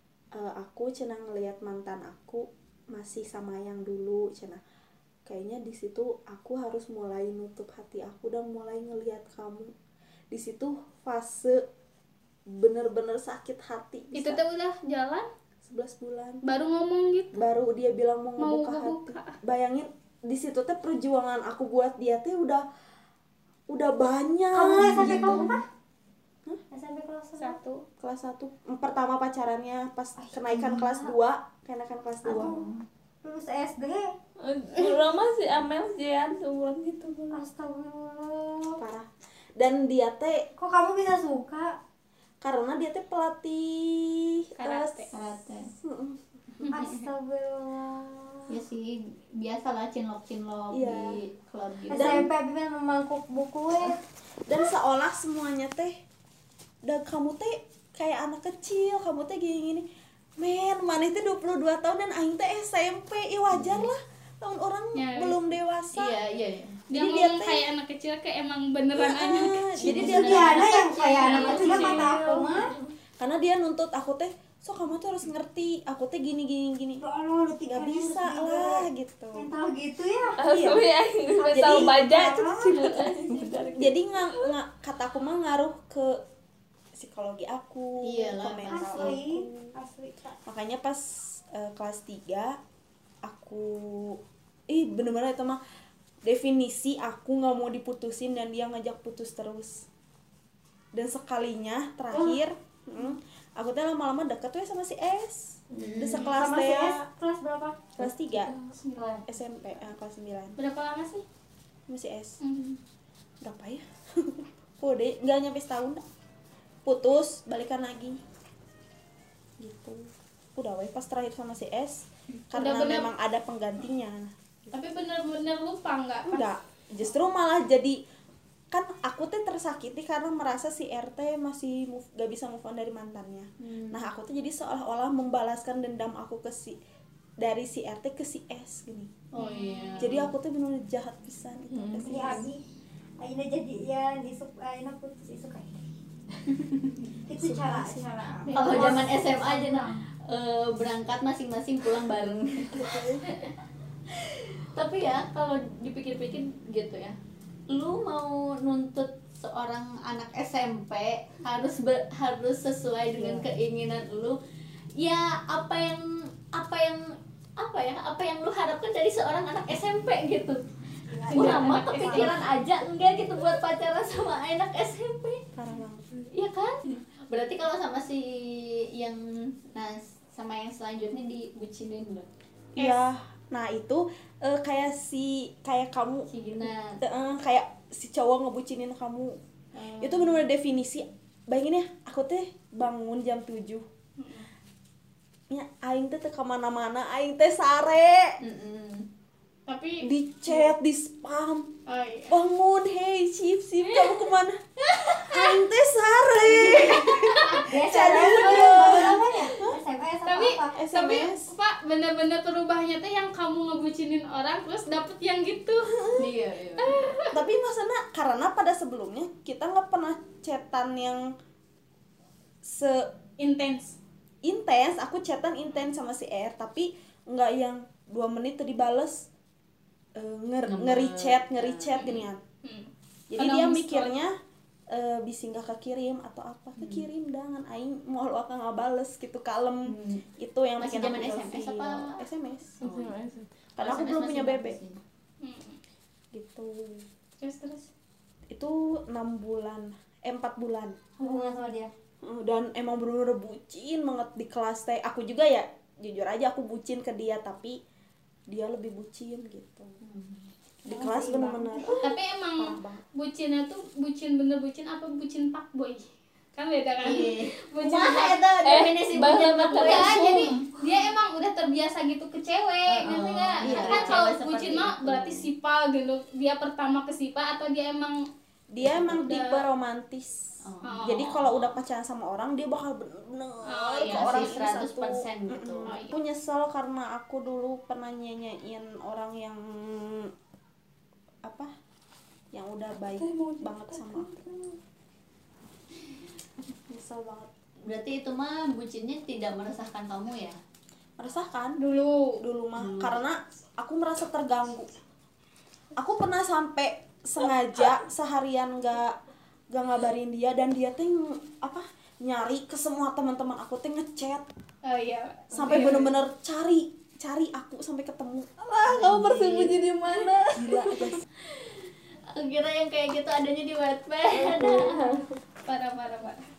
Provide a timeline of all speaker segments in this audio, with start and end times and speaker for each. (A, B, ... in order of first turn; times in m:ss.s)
0:00.3-0:04.6 A
0:05.2-0:09.7 A
0:10.3-0:11.6 A
0:12.5-0:14.4 A
0:14.1-0:15.3 B
0:15.6-0:16.4 A
0:16.4-0:17.4 B
0:17.3-0:22.6 A
0:18.4-0:19.4 B
0:23.7-0:25.5 A
0:24.5-0:25.6 C
0:24.7-0:25.6 D
0:26.7-0:27.6 C
0:27.4-0:27.8 B
0:28.0-0:32.6 A
0:30.2-0:31.1 C
0:32.2-0:32.6 C
0:32.2-0:32.8 D
0:33.2-0:34.1 C
0:34.4-0:37.4 E
0:37.3-0:38.8 C
0:38.8-0:40.5 A
0:40.6-0:41.8 C
0:42.4-0:45.0 A
0:44.6-0:45.1 B
0:45.1-0:45.7 D
0:45.8-0:46.2 A
0:46.7-0:47.0 B
0:46.7-0:48.5 C
0:48.5-0:52.3 D
0:50.7-0:51.2 A
0:51.9-0:54.0 C
0:51.9-0:52.3 A
0:54.5-0:56.0 A
0:56.8-0:59.8 A
1:00.4-1:06.1 A
1:03.5-1:03.9 D
1:04.9-1:05.4 B
1:05.9-1:06.8 D
1:06.9-1:09.7 B
1:06.9-1:07.7 A
1:08.9-1:10.8 A
1:09.8-1:12.1 D
1:09.8-1:12.7 C
1:11.2-1:12.3 B
1:11.3-1:12.1 A
1:11.6-1:12.8 E
1:13.2-1:17.0 A
1:17.0-1:20.4 C
1:17.6-1:19.5 A
1:20.4-1:24.5 E
1:20.4-1:20.8 A
1:21.3-1:23.7 C
1:21.4-1:22.7 A
1:23.8-1:26.2 A
1:26.9-1:29.7 A
1:28.0-1:29.2 D
1:28.7-1:30.4 C
1:30.4-1:32.6 A
1:33.2-1:35.6 A
1:36.2-1:39.9 A
1:40.9-1:47.0 A
1:42.1-1:42.4 C
1:45.7-1:46.3 D
1:46.1-1:47.9 C
1:48.0-1:48.5 A
1:48.5-1:49.3 C
1:49.2-1:50.6 A
1:50.6-1:51.2 B
1:51.9-1:52.4 A
1:52.4-1:52.8 B
1:53.4-1:56.0 A
1:56.8-1:58.2 A
1:59.6-2:04.7 A
2:02.5-2:03.1 B
2:04.7-2:06.4 B
2:06.2-2:08.0 A
2:08.7-2:16.8 A
2:13.6-2:14.0 D
2:17.4-2:19.3 A
2:19.3-2:20.3 D
2:19.4-2:20.1 B
2:20.0-2:22.5 A
2:21.7-2:22.5 E
2:22.0-2:22.6 C
2:23.2-2:25.8 C
2:27.2-2:30.0 C
2:27.4-2:28.1 A
2:28.5-2:28.8 B
2:28.5-2:33.3 D
2:28.6-2:29.0 A
2:32.7-2:33.2 A
2:34.2-2:37.2 D
2:37.7-2:44.4 D
2:43.2-2:43.4 A
2:45.0-2:50.6 D
2:51.1-2:52.5 A
2:51.2-2:52.4 B
2:51.3-2:55.4 D
2:55.5-2:56.1 A
2:56.3-3:02.3 D
3:02.8-3:06.3 A
3:06.3-3:07.0 D
3:07.0-3:09.4 A
3:09.7-3:10.4 D
3:10.0-3:13.8 A
3:14.2-3:14.5 B
3:15.5-3:18.4 A
3:18.4-3:19.1 D
3:19.6-3:20.1 B
3:20.0-3:21.8 A
3:21.8-3:22.3 B
3:22.3-3:24.6 A
3:23.8-3:24.2 B
3:24.8-3:25.6 B
3:25.1-3:29.8 A
3:26.6-3:27.7 B
3:27.7-3:30.8 C
3:30.2-3:36.1 B
3:30.8-3:31.5 A
3:35.9-3:36.3 A
3:36.2-3:37.1 D
3:36.8-3:37.4 B
3:37.3-3:41.3 A
3:42.6-3:43.1 A
3:43.4-3:44.0 B
3:44.4-3:49.3 A
3:50.2-3:52.4 A
3:50.7-3:52.0 D
3:51.9-3:54.1 B
3:53.3-3:54.3 A
3:54.9-4:02.8 A
3:56.8-3:57.1 D
3:59.8-4:00.2 D
4:00.8-4:02.2 D
4:02.8-4:03.2 D
4:02.8-4:03.5 E
4:03.8-4:04.8 A
4:03.8-4:05.0 D
4:05.4-4:05.8 B
4:06.3-4:07.1 A
4:07.4-4:07.9 B
4:08.5-4:11.0 A
4:11.2-4:11.9 C
4:12.2-4:17.8 A
4:18.5-4:20.0 A
4:20.0-4:20.4 D
4:20.8-4:23.0 A
4:20.9-4:21.9 C
4:22.0-4:28.5 B
4:27.0-4:30.6 D
4:28.6-4:30.6 E
4:29.7-4:38.2 B
4:32.8-4:35.5 D
4:33.6-4:34.3 A
4:38.7-4:40.4 A
4:38.9-4:39.6 B
4:40.6-4:41.5 D
4:40.8-4:41.5 B
4:41.0-4:50.3 A
4:43.6-4:44.6 B
4:44.0-4:45.9 D
4:45.8-4:46.1 B
4:51.4-4:51.7 A
4:52.5-4:54.3 A
4:53.0-4:54.8 E
4:56.9-4:57.5 A
4:57.8-5:00.6 D
5:01.2-5:01.8 A
5:01.8-5:02.4 B
5:02.4-5:04.9 A
5:02.8-5:03.2 D
5:06.0-5:09.2 A
5:09.7-5:14.4 A
5:14.8-5:16.0 B
5:15.5-5:19.8 A
5:15.6-5:16.1 E
5:18.8-5:21.2 E
5:20.5-5:21.2 A
5:22.3-5:25.0 D
5:24.3-5:25.3 E
5:25.6-5:26.4 B